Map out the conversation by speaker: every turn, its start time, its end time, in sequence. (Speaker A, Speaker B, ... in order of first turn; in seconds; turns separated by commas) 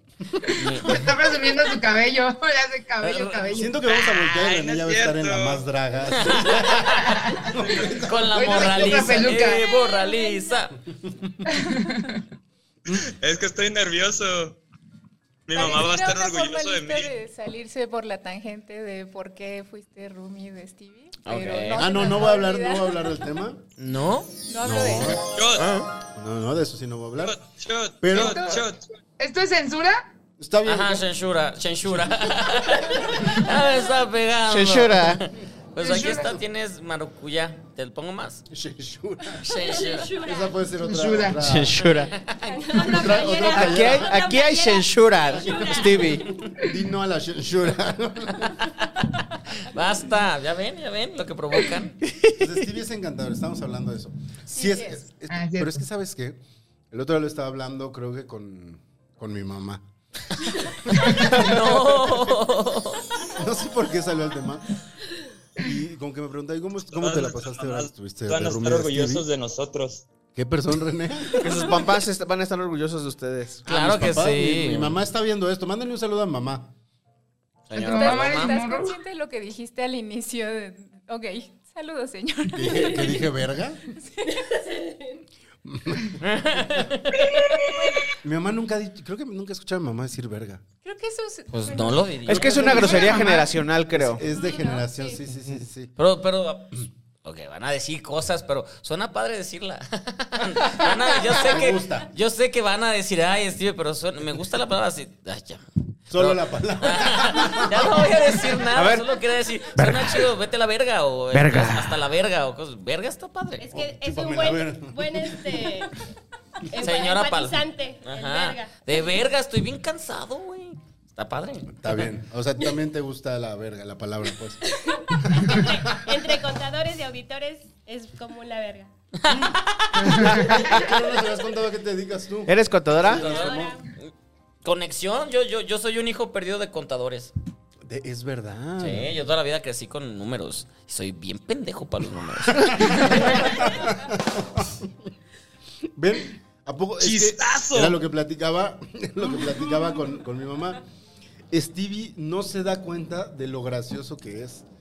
Speaker A: 0.3-1.1, Speaker B: 0.5-3.8, Speaker C: 3.0-3.5, Speaker A: 3.5-9.3, Speaker D: 3.9-5.6, Speaker C: 6.1-7.3, Speaker B: 7.0-7.5, Speaker C: 7.9-10.7, Speaker B: 8.4-9.6, Speaker E: 9.5-10.0, Speaker F: 10.0-10.4, Speaker A: 10.9-11.4, Speaker B: 11.5-12.2, Speaker D: 12.9-14.6, Speaker D: 15.5-17.1, Speaker F: 15.5-23.2, Speaker C: 21.2-21.9, Speaker A: 21.8-23.6, Speaker C: 23.8-24.3, Speaker F: 24.5-25.2, Speaker A: 24.6-25.2, Speaker D: 25.3-25.7, Speaker G: 25.6-25.9, Speaker A: 26.1-27.4, Speaker D: 27.2-28.9, Speaker A: 28.0-28.4, Speaker B: 28.1-28.6, Speaker B: 29.2-30.0, Speaker A: 30.4-31.1, Speaker C: 30.6-38.5, Speaker A: 31.8-33.1, Speaker G: 34.5-35.3, Speaker B: 35.8-36.4, Speaker A: 38.5-39.5, Speaker C: 39.4-40.1, Speaker E: 39.5-40.6, Speaker A: 40.2-41.8, Speaker B: 40.8-41.4, Speaker G: 41.4-42.1, Speaker C: 41.8-42.8, Speaker F: 42.5-43.4, Speaker E: 42.5-46.5, Speaker A: 42.9-44.3, Speaker G: 43.5-46.3, Speaker A: 45.3-48.7, Speaker C: 48.5-49.1, Speaker C: 49.6-52.0, Speaker G: 52.0-52.5, Speaker A: 52.3-59.9, Speaker F: 54.5-55.0, Speaker B: 55.3-55.8, Speaker A: 60.9-62.1, Speaker C: 60.9-63.1, Speaker A: 63.3-64.8, Speaker A: 65.6-69.3, Speaker D: 66.9-70.1, Speaker A: 70.3-71.8, Speaker G: 71.4-73.7, Speaker C: 73.7-75.0, Speaker A: 73.7-76.7, Speaker C: 77.7-78.6, Speaker B: 77.7-79.0, Speaker F: 77.8-83.2, Speaker A: 82.5-83.8, Speaker E: 82.7-83.2, Speaker F: 84.0-84.4, Speaker E: 84.2-85.2, Speaker A: 85.6-86.9, Speaker C: 86.2-87.5, Speaker D: 87.4-87.7, Speaker F: 87.8-88.1, Speaker A: 88.2-90.6, Speaker F: 90.8-93.5, Speaker C: 91.5-93.2, Speaker G: 92.3-94.2, Speaker A: 93.9-96.0, Speaker F: 94.2-95.2, Speaker C: 96.0-113.7, Speaker A: 100.8-102.1, Speaker A: 106.1-108.4, Speaker G: 108.8-109.0, Speaker G: 109.8-110.3, Speaker G: 111.3-112.0, Speaker E: 113.6-116.0, Speaker A: 113.7-115.8, Speaker E: 116.7-119.1, Speaker C: 116.8-122.1, Speaker A: 121.8-124.7, Speaker E: 124.7-128.9, Speaker A: 125.2-126.3, Speaker C: 129.2-130.6, Speaker A: 129.3-133.8, Speaker B: 129.9-130.7, Speaker G: 132.5-133.2, Speaker C: 133.1-134.1, Speaker E: 133.1-133.8, Speaker C: 134.6-137.3, Speaker A: 137.8-139.1, Speaker C: 138.8-143.8, Speaker A: 142.6-145.1, Speaker A: 146.0-150.8, Speaker D: 147.0-148.0, Speaker A: 151.5-154.7